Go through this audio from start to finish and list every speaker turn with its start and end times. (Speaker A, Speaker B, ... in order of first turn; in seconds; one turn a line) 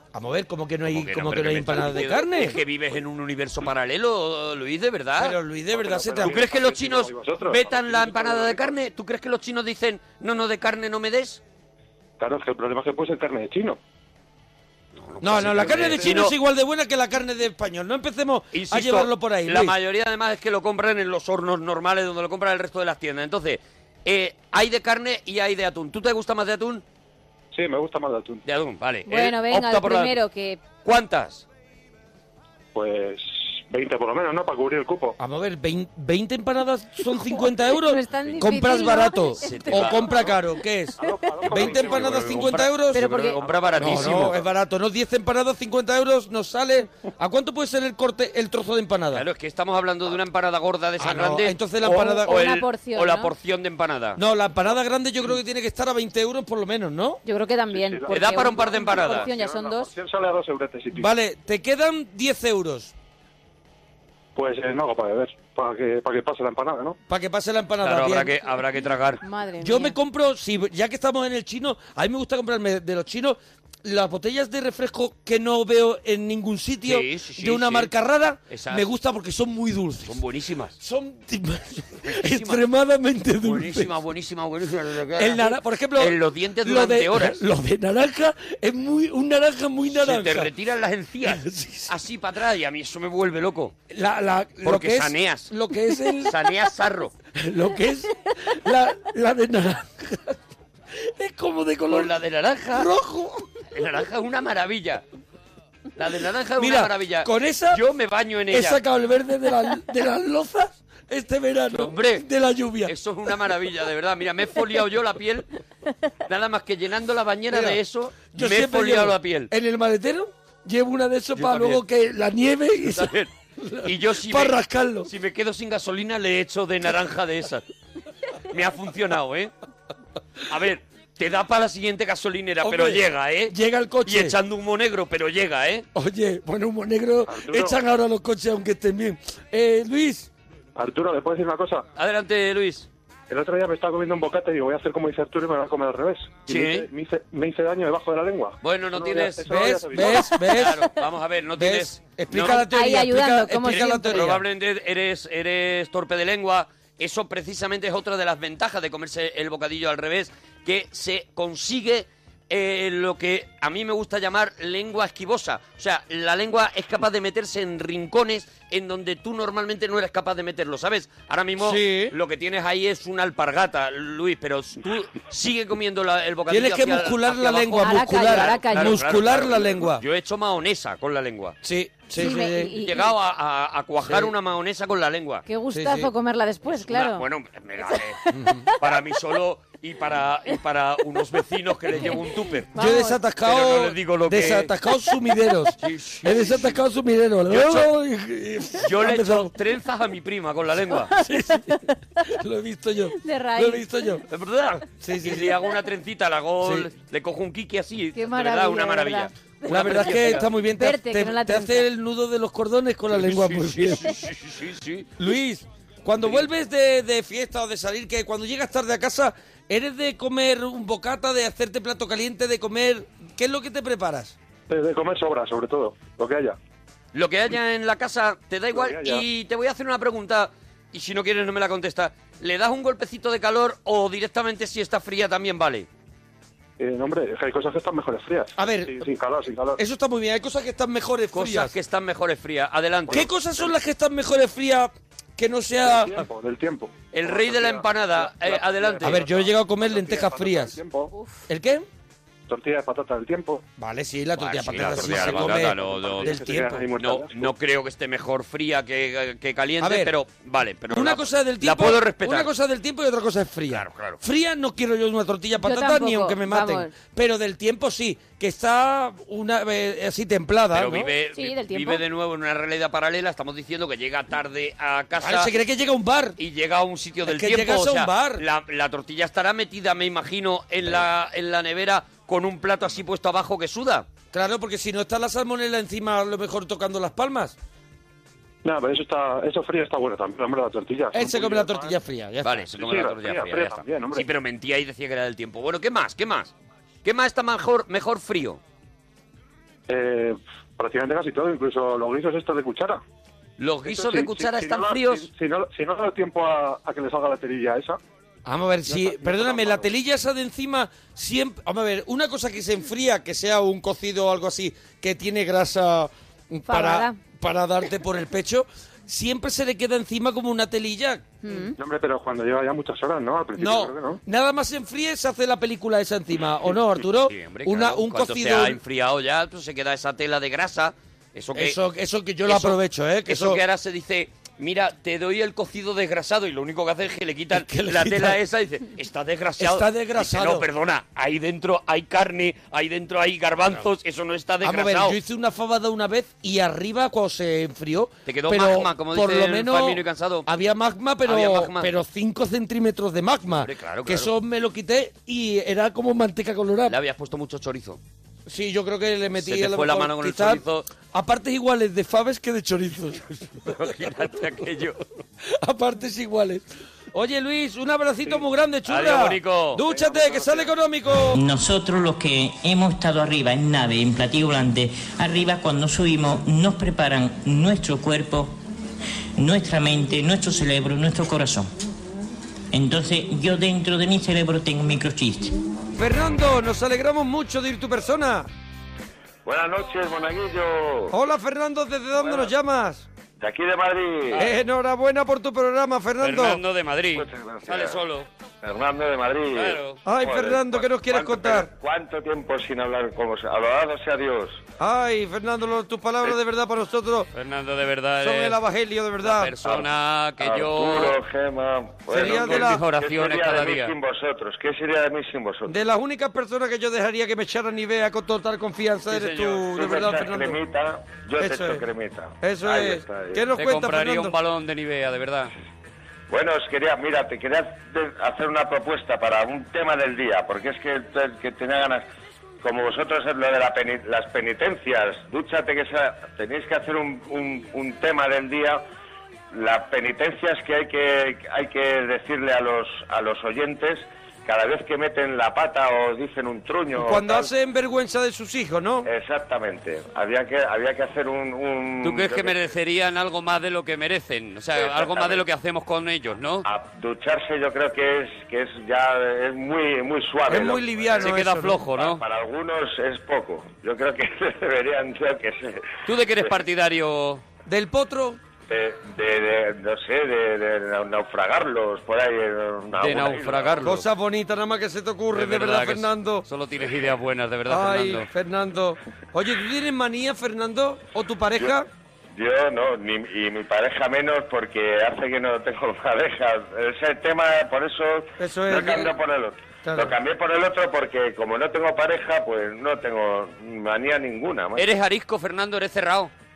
Speaker A: 0.1-2.6
Speaker B: 0.9-5.4
Speaker A: 5.2-6.4
Speaker C: 5.7-8.8
Speaker B: 6.2-11.4
Speaker C: 12.2-13.8
Speaker B: 14.9-16.3
Speaker A: 15.2-19.8
Speaker C: 15.5-16.2
Speaker B: 18.5-26.8
Speaker C: 27.5-28.4
Speaker B: 28.4-30.2
Speaker D: 29.1-30.6
Speaker B: 30.8-31.4
Speaker C: 32.7-35.2
Speaker A: 35.2-43.1
Speaker D: 37.7-40.0
Speaker B: 38.2-40.1
Speaker C: 41.0-42.6
Speaker B: 41.5-44.4
Speaker D: 42.9-43.4
Speaker C: 43.4-44.4
Speaker A: 43.8-49.2
Speaker B: 49.1-54.2
Speaker A: 51.0-52.5
Speaker D: 52.3-53.3
Speaker A: 54.2-57.2
Speaker D: 57.2-59.9
Speaker C: 57.7-61.1
Speaker B: 58.1-59.3
Speaker A: 60.9-62.9
Speaker C: 64.3-67.0
Speaker A: 67.1-68.4
Speaker B: 67.8-69.2
Speaker D: 69.2-70.0
Speaker A: 69.6-80.2
Speaker B: 76.8-77.9
Speaker B: 78.5-78.9
Speaker B: 80.1-80.8
Speaker A: 80.8-83.9
Speaker B: 82.0-82.6
Speaker B: 83.4-87.4
Speaker A: 85.2-90.5
Speaker B: 89.9-93.8
Speaker A: 91.2-91.9
Speaker A: 93.9-96.4
Speaker B: 94.6-95.5
Speaker B: 96.2-97.1
Speaker A: 97.4-100.4
Speaker A: 101.0-102.1
Speaker B: 101.9-102.9
Speaker A: 102.7-103.5
Speaker B: 103.7-105.0
Speaker B: 106.0-108.8
Speaker A: 106.6-107.8
Speaker A: 108.5-112.9
Speaker B: 111.7-112.2
Speaker B: 112.8-115.5
Speaker B: 116.3-119.5
Speaker A: 117.5-117.8
Speaker A: 118.3-125.1
Speaker B: 121.4-121.8
Speaker B: 122.8-123.3
Speaker B: 123.8-127.6
Speaker B: 128.5-129.5
Speaker B: 130.5-135.9
Speaker A: 132.6-134.4
Speaker A: 135.9-140.3
Speaker C: 137.3-137.8
Speaker C: 140.8-141.9
Speaker B: 142.0-142.9
Speaker C: 143.3-150.3
Speaker B: 146.5-146.9
Speaker B: 148.6-152.7
Speaker A: 149.4-150.9
Speaker A: 151.6-154.4
Speaker D: 152.5-154.3
Speaker B: 153.7-181.6
Speaker A: 171.6-172.2
Speaker A: 176.5-180.0
Speaker D: 177.8-179.0
Speaker A: 181.6-182.8
Speaker D: 182.2-183.1
Speaker B: 182.8-185.4
Speaker A: 184.1-184.3
Speaker D: 185.5-187.2
Speaker A: 185.7-186.1
Speaker B: 186.8-192.9
Speaker D: 192.8-193.2
Speaker A: 192.8-199.5
Speaker B: 193.4-194.7
Speaker B: 195.8-196.8
Speaker B: 197.5-197.9
Speaker B: 198.8-201.1
Speaker A: 201.2-204.2
Speaker D: 203.2-203.8
Speaker B: 204.3-210.5
Speaker A: 205.0-205.6
Speaker A: 206.6-206.9
Speaker D: 208.2-211.9
Speaker A: 209.7-214.2
Speaker B: 213.2-215.1
Speaker A: 215.2-224.4
Speaker C: 224.7-226.6
Speaker B: 227.1-235.9
Speaker C: 228.7-229.2
Speaker C: 236.8-239.8
Speaker A: 238.6-239.1
Speaker A: 239.8-241.7
Speaker B: 241.3-243.3
Speaker A: 243.1-246.2
Speaker C: 245.8-251.1
Speaker B: 247.1-249.2
Speaker A: 249.0-250.8
Speaker A: 251.5-251.9
Speaker C: 252.5-253.6
Speaker A: 253.8-256.9
Speaker B: 254.4-256.4
Speaker C: 254.9-257.6
Speaker B: 257.0-262.5
Speaker A: 259.8-260.1
Speaker A: 260.9-271.1
Speaker B: 263.7-264.2
Speaker D: 265.6-266.9
Speaker B: 270.7-275.5
Speaker D: 271.4-272.0
Speaker A: 275.2-276.4
Speaker B: 276.4-284.1
Speaker A: 277.3-278.4
Speaker A: 284.3-287.6
Speaker C: 288.6-292.0
Speaker A: 291.1-292.6
Speaker B: 292.4-296.5
Speaker C: 292.8-294.3
Speaker B: 297.0-298.6
Speaker C: 299.9-303.0
Speaker B: 303.6-305.3
Speaker C: 303.9-308.0
Speaker A: 308.4-321.4
Speaker C: 308.9-309.9
Speaker D: 316.7-317.2
Speaker D: 321.4-321.8
Speaker C: 321.8-324.2
Speaker A: 323.6-328.8
Speaker B: 327.2-331.8
Speaker A: 331.6-333.6
Speaker B: 332.5-345.2
Speaker A: 337.5-338.4
Speaker A: 339.6-340.7
Speaker A: 344.6-357.0
Speaker B: 348.3-350.5
Speaker B: 351.2-351.9
Speaker B: 353.6-354.3
Speaker B: 356.9-358.0
Speaker A: 358.5-363.7
Speaker B: 359.4-360.9
Speaker B: 363.6-365.0
Speaker A: 365.4-371.4
Speaker B: 368.9-369.9
Speaker C: 369.9-370.7
Speaker E: 371.3-378.6
Speaker E: 379.4-381.7
Speaker E: 382.7-385.6
Speaker A: 386.0-388.5
Speaker F: 389.4-391.2
Speaker A: 391.1-393.1
Speaker F: 393.4-394.5
Speaker A: 394.4-396.6
Speaker B: 396.2-398.3
Speaker F: 397.1-398.0
Speaker F: 398.6-404.6
Speaker B: 399.5-400.0
Speaker A: 400.0-401.7
Speaker A: 404.8-407.3
Speaker B: 407.3-408.6
Speaker A: 408.2-409.5
Speaker B: 409.2-411.2
Speaker F: 410.4-415.8
Speaker A: 412.1-412.8
Speaker B: 412.1-413.9
Speaker A: 415.7-420.6
Speaker B: 419.1-419.8
Speaker F: 419.8-423.4
Speaker A: 421.4-421.8
Speaker A: 422.4-424.4
Speaker B: 423.6-425.5
Speaker F: 426.3-432.1
Speaker F: 432.6-438.8
Speaker F: 439.5-447.5
Speaker A: 447.0-449.1
Speaker F: 449.0-452.7
Speaker B: 452.0-456.7
Speaker F: 454.8-455.4
Speaker F: 456.6-461.3
Speaker A: 460.5-461.8
Speaker B: 461.2-462.2
Speaker F: 461.9-466.5
Speaker B: 466.1-467.4
Speaker A: 467.7-468.4
Speaker F: 468.7-473.8
Speaker B: 473.0-474.1
Speaker A: 473.8-476.4
Speaker B: 475.3-478.3
Speaker A: 477.7-481.9
Speaker F: 482.3-494.9
Speaker A: 488.4-489.2
Speaker A: 489.8-490.1
Speaker B: 494.8-496.3